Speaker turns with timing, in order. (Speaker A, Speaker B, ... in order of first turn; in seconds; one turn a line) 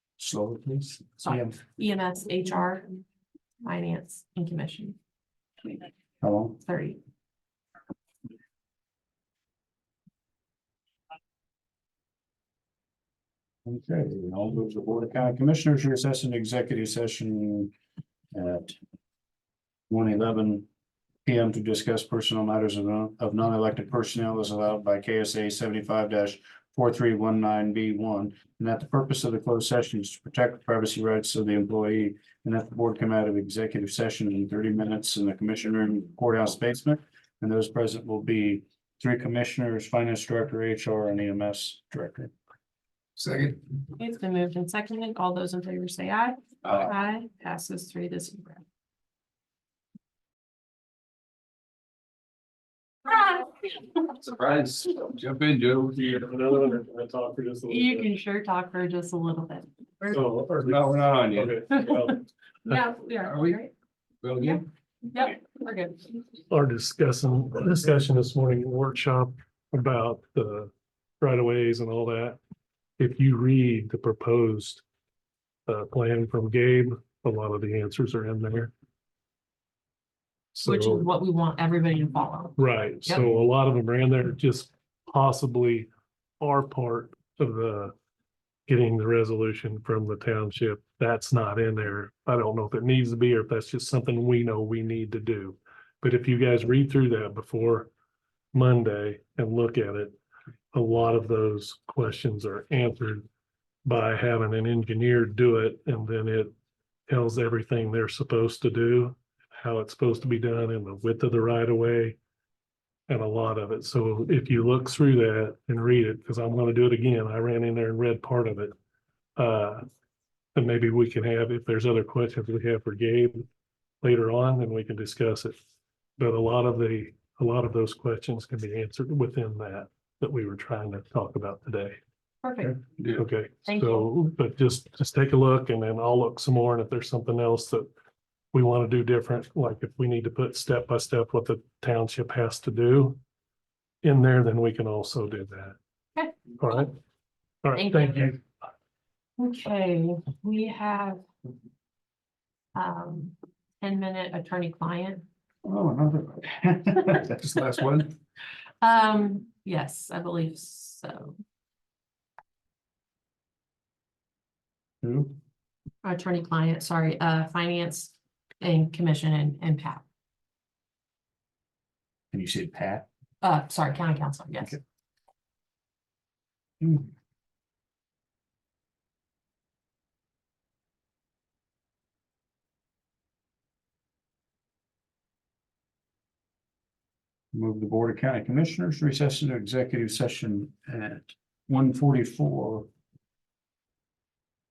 Speaker A: 0.2-1.6
Speaker B: 1.2-2.9
Speaker B: 3.6-5.0
Speaker A: 6.2-6.6
Speaker B: 6.6-7.0
Speaker A: 13.7-17.7
Speaker A: 18.3-18.8
Speaker A: 19.9-20.7
Speaker A: 21.2-42.3
Speaker C: 43.2-43.6
Speaker B: 44.0-48.6
Speaker C: 46.6-46.9
Speaker B: 53.1-53.4
Speaker C: 54.0-56.2
Speaker D: 56.1-58.1
Speaker B: 57.7-60.2
Speaker D: 60.1-62.2
Speaker C: 60.6-61.7
Speaker B: 61.8-62.1
Speaker B: 62.6-63.7
Speaker C: 63.2-63.7
Speaker C: 64.2-64.6
Speaker B: 64.4-66.0
Speaker D: 66.5-72.4
Speaker D: 73.0-74.8
Speaker D: 75.7-78.7
Speaker D: 80.5-81.0
Speaker B: 80.6-83.2
Speaker D: 82.6-85.9
Speaker D: 86.4-87.9
Speaker D: 88.7-97.9
Speaker D: 98.5-100.2
Speaker D: 100.7-103.3
Speaker D: 103.8-106.5
Speaker D: 107.1-112.2
Speaker D: 113.1-118.7
Speaker D: 119.4-119.8
Speaker D: 120.5-123.5
Speaker D: 124.0-125.5
Speaker D: 126.2-132.0
Speaker B: 132.4-132.8
Speaker C: 133.0-133.2
Speaker D: 133.1-137.9
Speaker B: 133.6-134.1
Speaker D: 138.5-143.2
Speaker D: 144.0-145.8
Speaker D: 146.6-146.9
Speaker D: 147.6-148.4
Speaker B: 147.8-148.3
Speaker B: 149.4-151.2
Speaker B: 152.7-155.2
Speaker A: 155.6-157.4
Speaker C: 157.3-158.2
Speaker B: 158.8-161.4
Speaker A: 165.0-165.3
Speaker B: 166.0-170.0
Speaker A: 172.3-173.1
Speaker B: 173.4-174.8
Speaker A: 176.8-177.1
Speaker A: 187.5-192.9